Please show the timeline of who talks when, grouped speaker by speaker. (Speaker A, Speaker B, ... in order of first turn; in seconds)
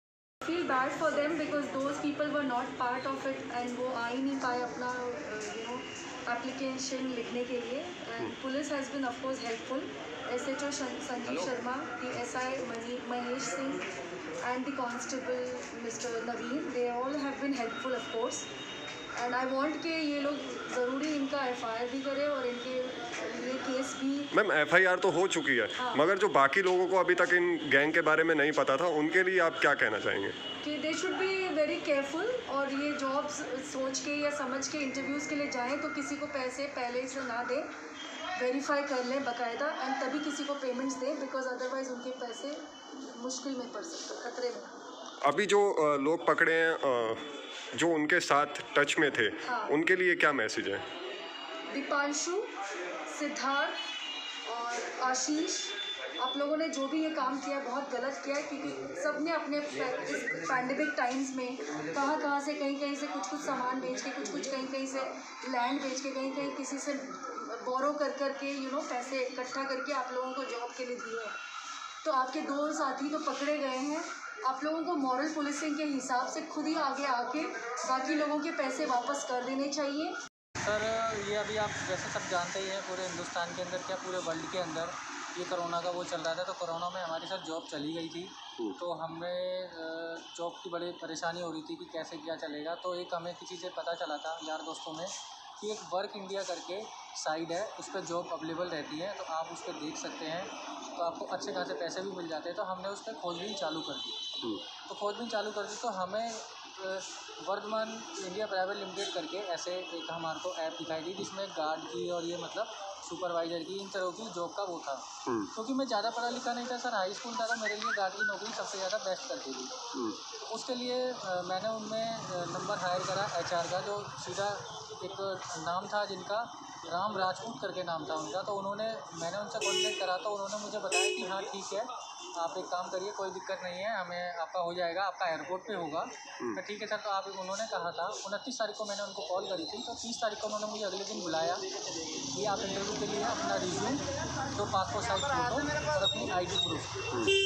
Speaker A: 0.4-13.8, 14.4-18.5, 19.1-24.3, 25.8-26.0, 30.6-37.7, 38.4-44.7, 49.4-49.8, 51.7-52.5, 53.0-53.8, 54.5-71.4, 72.0-80.2
Speaker B: 24.3-30.4, 45.2-47.2, 47.8-50.8
Speaker C: 80.6-104.2, 104.9-119.9, 120.5-141.6, 142.3-147.0